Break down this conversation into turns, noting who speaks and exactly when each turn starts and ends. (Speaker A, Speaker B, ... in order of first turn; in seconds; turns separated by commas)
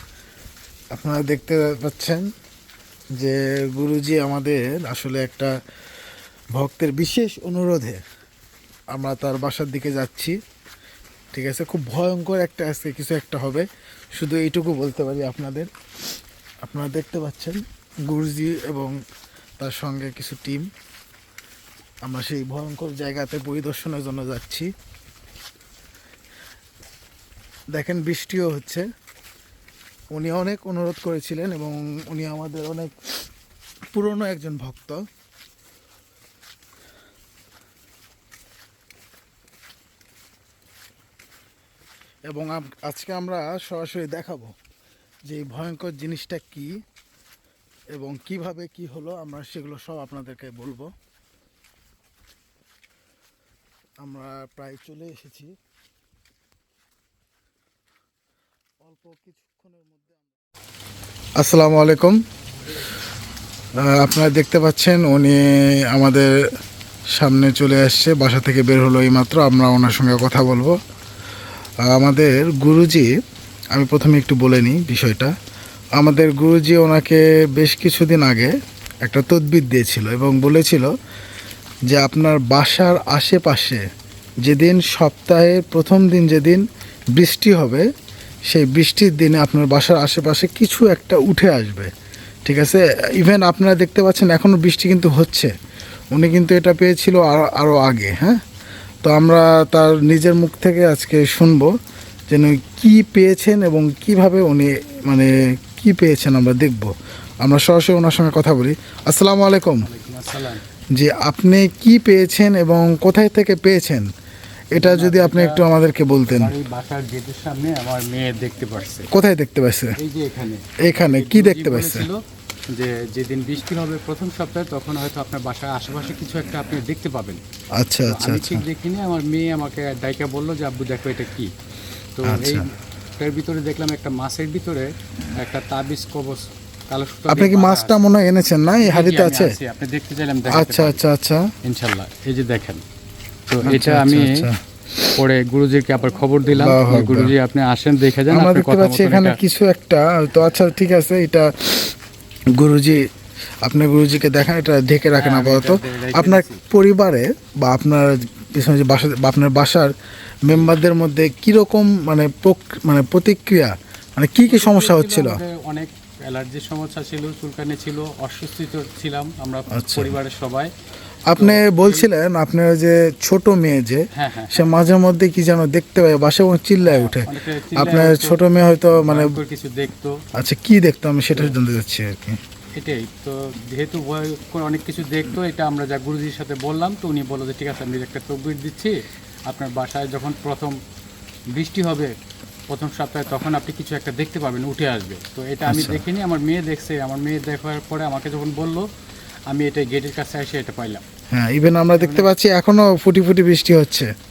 Speaker A: 0.9-2.3, Speaker A: 3.2-5.5, Speaker A: 6.5-8.0, Speaker A: 8.9-10.4, Speaker A: 11.3-15.7, Speaker A: 16.6-19.0, Speaker A: 19.6-20.7, Speaker A: 22.1-24.7, Speaker A: 27.8-28.9, Speaker A: 30.1-32.9, Speaker A: 33.9-35.0, Speaker A: 42.3-44.5, Speaker A: 45.3-46.8, Speaker A: 47.9-50.9, Speaker A: 54.0-55.5, Speaker A: 58.8-60.2, Speaker A: 61.4-62.2, Speaker A: 63.9-66.3, Speaker A: 67.2-70.8, Speaker A: 71.9-73.1, Speaker A: 73.8-75.3, Speaker A: 76.0-78.5, Speaker A: 79.0-80.9, Speaker A: 81.9-83.8, Speaker A: 84.5-86.6, Speaker A: 87.2-87.9, Speaker A: 88.5-91.9, Speaker A: 92.5-95.5, Speaker A: 96.1-98.4, Speaker A: 99.0-101.7, Speaker A: 102.3-106.9, Speaker A: 107.4-109.9, Speaker B: 109.9-110.6, Speaker A: 111.0-114.1, Speaker A: 114.7-116.5, Speaker B: 114.8-115.7, Speaker B: 116.3-119.1, Speaker A: 119.1-120.0, Speaker B: 120.0-122.2, Speaker A: 120.8-122.1, Speaker B: 122.7-127.4, Speaker A: 127.8-128.6, Speaker B: 128.1-131.5, Speaker B: 132.2-132.7, Speaker A: 132.2-132.7, Speaker B: 133.2-138.0, Speaker A: 137.3-139.6, Speaker B: 138.8-141.0, Speaker A: 140.5-141.5, Speaker B: 141.7-142.8, Speaker B: 143.5-144.3, Speaker A: 143.7-144.6, Speaker B: 145.1-149.4, Speaker A: 146.5-147.3, Speaker A: 148.3-151.9, Speaker A: 152.6-153.0, Speaker A: 153.7-159.9, Speaker B: 155.2-156.6, Speaker A: 160.5-165.4, Speaker B: 164.5-170.7, Speaker A: 169.7-170.2, Speaker A: 171.3-179.4, Speaker B: 171.3-172.1, Speaker B: 174.1-174.7, Speaker B: 176.8-180.1, Speaker A: 180.4-182.4, Speaker B: 182.8-189.0, Speaker B: 189.5-190.8, Speaker B: 191.6-192.1, Speaker B: 192.7-198.8, Speaker A: 195.7-196.0, Speaker B: 199.5-201.0, Speaker A: 201.3-204.1, Speaker B: 202.0-202.3